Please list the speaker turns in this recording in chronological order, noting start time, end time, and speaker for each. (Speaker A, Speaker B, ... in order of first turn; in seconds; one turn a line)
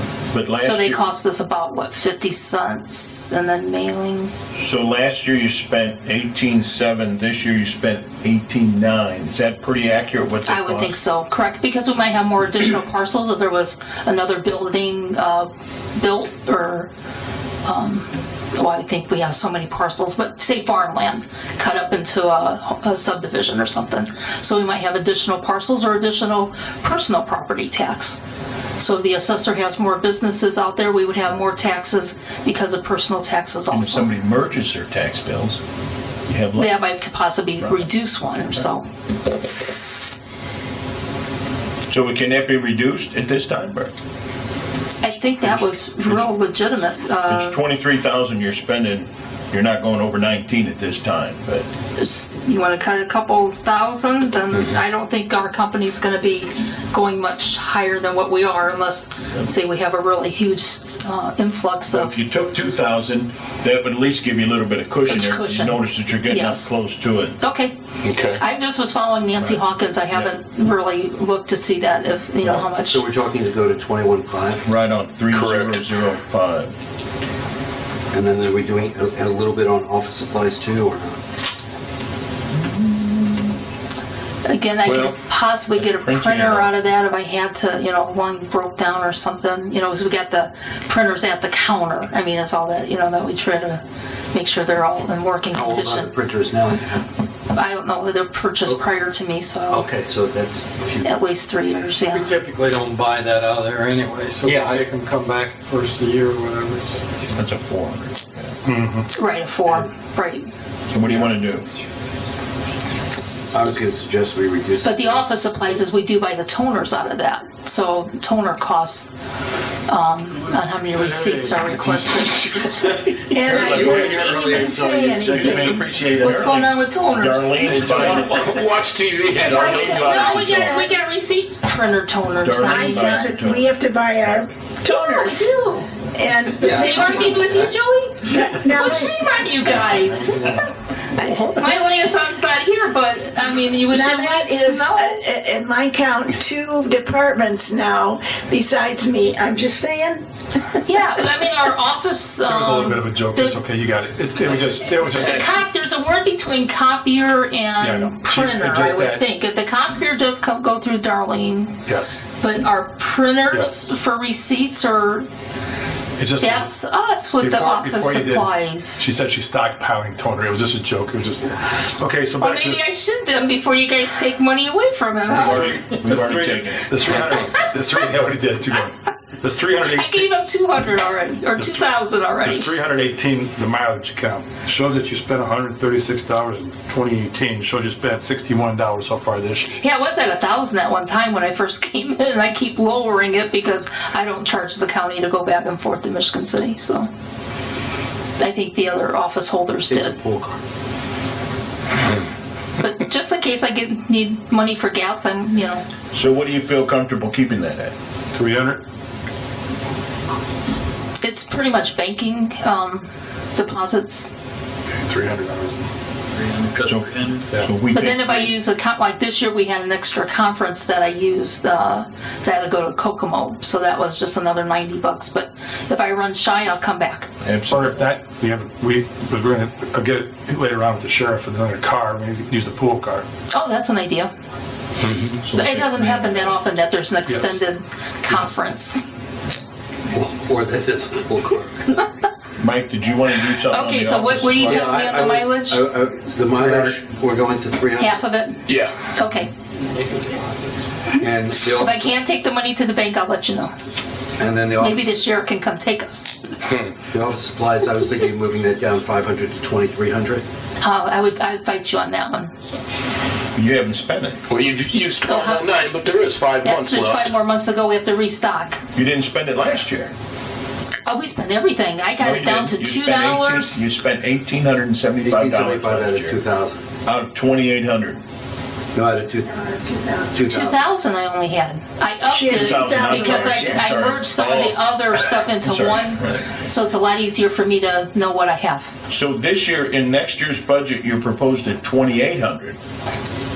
Speaker A: 0.3-1.0
Speaker B: 0.6-4.3
Speaker A: 4.5-11.0
Speaker B: 10.5-16.9
Speaker B: 17.6-28.2
Speaker B: 28.8-34.1
Speaker A: 33.7-35.6
Speaker A: 36.3-36.9
Speaker B: 36.5-38.9
Speaker A: 37.6-37.9
Speaker A: 41.9-43.9
Speaker B: 45.0-47.6
Speaker A: 45.4-46.2
Speaker A: 47.3-51.6
Speaker B: 52.0-62.1
Speaker A: 61.9-67.4
Speaker B: 65.1-66.7
Speaker B: 67.4-67.8
Speaker C: 68.0-68.4
Speaker B: 68.3-73.0
Speaker A: 72.4-72.7
Speaker D: 72.8-74.6
Speaker A: 74.7-76.7
Speaker C: 75.3-75.8
Speaker D: 78.1-81.2
Speaker A: 82.6-83.4
Speaker B: 84.4-93.8
Speaker A: 84.8-85.2
Speaker A: 85.7-86.7
Speaker B: 94.3-96.1
Speaker D: 95.5-97.0
Speaker B: 97.5-99.9
Speaker D: 99.7-101.2
Speaker B: 101.0-102.3
Speaker E: 102.1-107.0
Speaker D: 104.4-104.8
Speaker A: 107.3-108.5
Speaker F: 108.6-109.1
Speaker B: 109.1-110.5
Speaker A: 110.9-111.7
Speaker D: 113.5-115.3
Speaker B: 114.8-119.1
Speaker B: 119.9-122.7
Speaker G: 123.2-125.8
Speaker A: 123.4-128.6
Speaker D: 123.5-126.3
Speaker B: 125.4-127.7
Speaker C: 127.7-130.0
Speaker D: 127.9-128.3
Speaker A: 129.3-130.8
Speaker G: 129.4-130.9
Speaker B: 129.7-133.4
Speaker A: 132.4-134.4
Speaker G: 132.6-135.5
Speaker B: 134.8-135.9
Speaker G: 136.1-137.4
Speaker B: 136.6-140.6
Speaker D: 136.6-137.7
Speaker G: 138.2-139.1
Speaker D: 139.8-140.6
Speaker B: 141.4-145.2
Speaker G: 143.9-150.2
Speaker B: 150.8-153.6
Speaker F: 152.4-155.4
Speaker B: 155.2-161.7
Speaker F: 157.8-159.2
Speaker F: 161.8-162.2
Speaker B: 162.4-165.3
Speaker F: 166.2-166.7
Speaker B: 166.4-169.0
Speaker F: 167.4-172.8
Speaker B: 172.4-175.7
Speaker F: 175.3-180.3
Speaker A: 175.3-177.4
Speaker B: 177.3-177.5
Speaker B: 179.8-182.7
Speaker F: 181.6-181.8
Speaker F: 182.4-189.7
Speaker B: 189.8-197.1
Speaker B: 198.4-200.1
Speaker D: 199.9-200.6
Speaker B: 202.8-205.8
Speaker A: 206.1-207.9
Speaker F: 208.3-208.8
Speaker B: 211.2-214.3
Speaker F: 214.9-215.9
Speaker A: 216.8-218.5
Speaker B: 217.9-227.3
Speaker A: 227.4-228.1
Speaker F: 227.7-233.2
Speaker B: 233.5-234.3
Speaker A: 235.4-236.6
Speaker B: 235.5-239.0
Speaker F: 237.3-237.6
Speaker D: 240.1-241.9
Speaker A: 242.6-244.9
Speaker B: 243.7-245.9
Speaker D: 244.6-248.2
Speaker B: 248.0-249.5
Speaker C: 248.7-248.9
Speaker D: 251.1-252.1
Speaker B: 251.7-253.7
Speaker D: 254.4-255.2
Speaker B: 254.8-256.4
Speaker D: 257.1-260.4
Speaker B: 260.8-262.5
Speaker A: 263.5-264.4
Speaker C: 264.5-267.3
Speaker B: 265.2-265.7
Speaker B: 266.6-268.8
Speaker A: 268.9-270.1
Speaker B: 271.0-273.9
Speaker A: 272.2-276.4
Speaker D: 275.2-276.8
Speaker A: 277.0-278.2
Speaker D: 278.9-279.7
Speaker G: 279.9-280.2
Speaker D: 280.3-280.8
Speaker B: 280.5-288.9
Speaker G: 282.3-283.8
Speaker A: 282.5-284.3
Speaker C: 284.4-284.7
Speaker A: 285.6-286.4
Speaker A: 289.1-292.8